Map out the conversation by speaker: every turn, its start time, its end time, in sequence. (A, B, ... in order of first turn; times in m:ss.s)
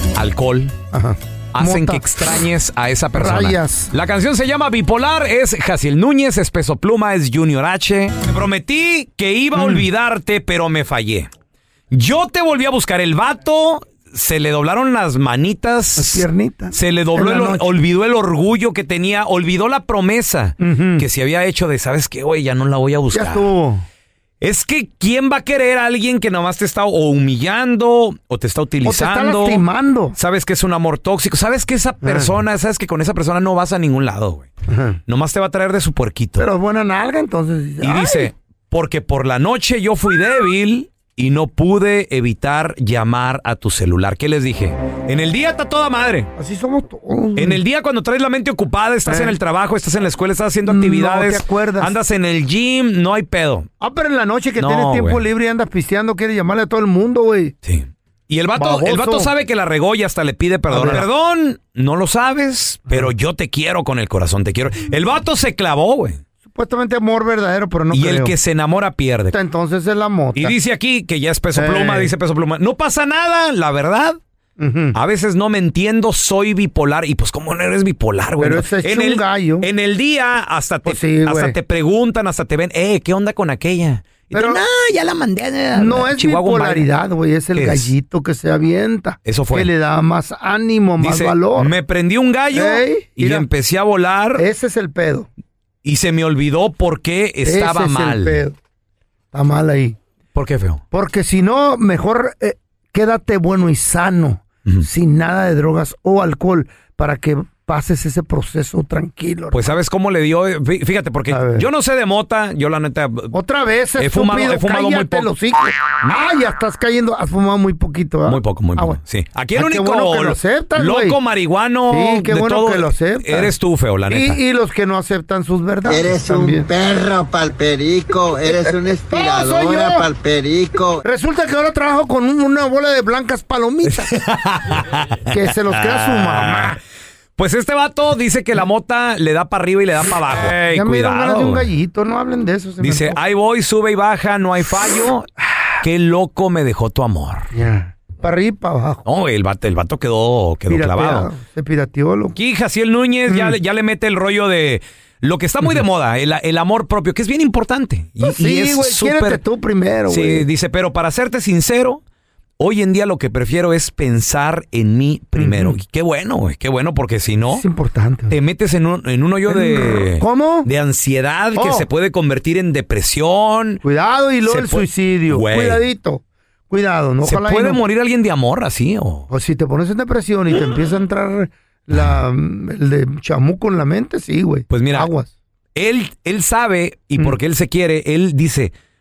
0:00.2-0:00.8 A
0:00.9-0:02.3 B
0:01.5-0:11.3 A
0:03.2-0:03.9 B
0:09.6-0:09.9 B
0:11.9-0:23.5 A
0:16.0-0:17.7 B
0:20.6-0:21.1 B
0:23.1-0:23.8 B
0:24.4-0:29.6 A
0:28.8-0:30.2 B
0:30.2-0:34.5 A
0:32.0-0:32.4 B
0:34.7-0:35.0 B
0:35.1-0:36.5 A
0:36.4-0:38.3 B
0:37.8-0:46.3 A
0:46.4-0:47.6 B
0:47.4-0:53.7 A
0:49.0-0:49.4 B
0:50.6-0:52.0 B
0:53.8-0:57.6 B
0:54.6-0:55.2 A
0:57.6-1:06.2 A
0:58.6-0:59.3 B
1:00.7-1:01.1 B
1:06.4-1:08.3 B
1:07.9-1:09.4 A
1:09.3-1:10.6 B
1:10.4-1:14.2 A
1:11.5-1:12.1 B
1:14.6-1:15.0 B
1:15.0-1:26.9 A
1:18.4-1:19.7 B
1:20.8-1:21.6 B
1:24.3-1:24.6 B
1:25.7-1:31.7 B
1:27.6-1:27.9 A
1:29.2-1:29.7 A
1:31.0-1:34.5 A
1:32.5-1:33.5 B
1:34.4-1:35.3 B
1:35.8-1:38.4 A
1:37.4-1:38.6 B
1:39.3-1:40.0 B
1:40.3-1:40.8 A
1:40.9-1:49.8 B
1:49.5-1:53.4 A
1:51.3-1:51.7 B
1:53.3-1:59.0 B
1:54.0-1:55.3 A
1:58.2-2:04.4 A
1:59.6-2:01.2 B
2:01.9-2:03.5 B
2:04.1-2:06.7 B
2:05.8-2:11.0 C
2:09.1-2:10.1 B
2:11.0-2:14.2 B
2:13.8-2:16.8 A
2:15.3-2:16.8 B
2:17.4-2:21.7 A
2:20.3-2:23.2 B
2:22.8-2:25.3 A
2:25.8-2:27.5 A
2:27.5-2:29.0 B
2:29.0-2:31.3 A
2:30.7-2:32.4 B
2:32.4-2:39.4 A
2:33.3-2:33.6 B
2:38.2-2:40.5 B
2:40.1-2:42.0 A
2:42.6-2:47.6 A
2:45.4-2:45.8 B
2:47.5-2:48.4 B
2:48.3-2:53.8 A
2:49.5-2:50.7 B
2:51.5-2:51.9 B
2:53.8-2:57.8 B
2:54.4-2:55.8 A
2:57.2-2:59.3 A
2:59.3-3:05.3 B
3:04.7-3:05.1 A
3:05.8-3:08.7 A